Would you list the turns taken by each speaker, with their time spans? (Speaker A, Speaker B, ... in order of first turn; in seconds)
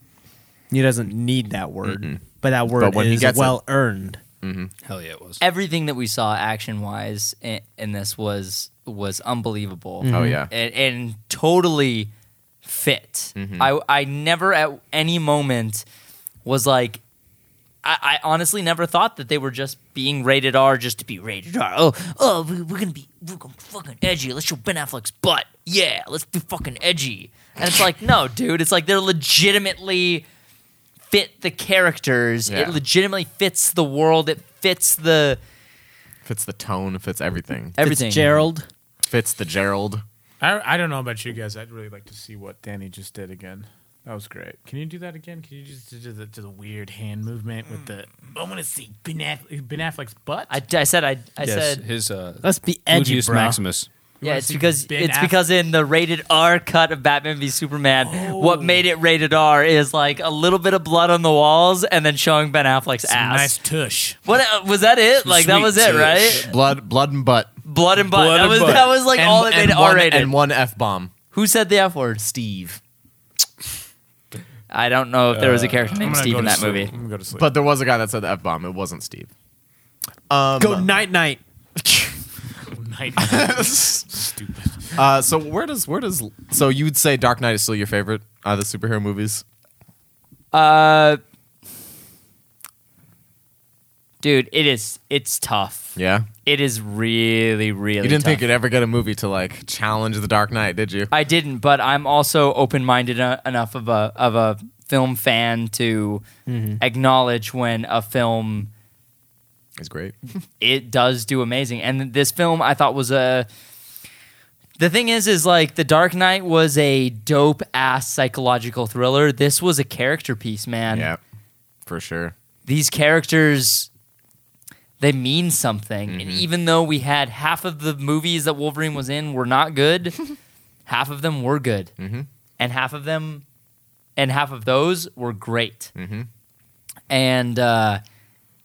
Speaker A: 0.7-4.2, 10.0-10.4, 37.8-38.7, 52.4-53.6, 80.6-81.4, 106.5-106.8
Speaker B: 1.8-2.2, 2.8-3.6, 4.4-4.7, 10.1-10.5, 13.3-13.7, 32.5-32.8, 36.2-37.8, 39.0-40.0, 65.9-67.5, 68.9-71.1, 72.2-72.8, 77.4-79.3, 80.3-81.0, 81.8-82.1, 83.2-84.0, 84.9-89.4, 96.0-96.3, 98.0-101.1, 109.8-110.2, 120.9-121.2, 121.8-122.3, 126.1-126.4, 132.0-132.3, 135.9-136.3
Speaker C: 4.8-5.4, 51.4-53.9, 58.1-58.8, 65.2-66.5, 68.1-68.9, 75.3-76.9
Speaker D: 5.4-12.1, 12.6-15.8, 16.4-17.0, 17.8-30.2, 31.1-35.4, 37.8-38.4, 50.5-51.8, 54.2-63.5, 64.2-66.5, 67.6-70.3, 71.3-72.2, 74.7-76.9, 90.5-91.2, 94.2-98.4, 101.1-106.2, 106.8-108.7, 110.6-113.5, 114.8-121.1, 122.7-123.9, 125.0-130.2, 130.9-131.9, 132.6-133.4, 134.2-135.9, 137.1-138.0
Speaker E: 40.4-50.6, 54.2-55.4, 63.1-64.2, 75.9-77.5, 82.7-84.9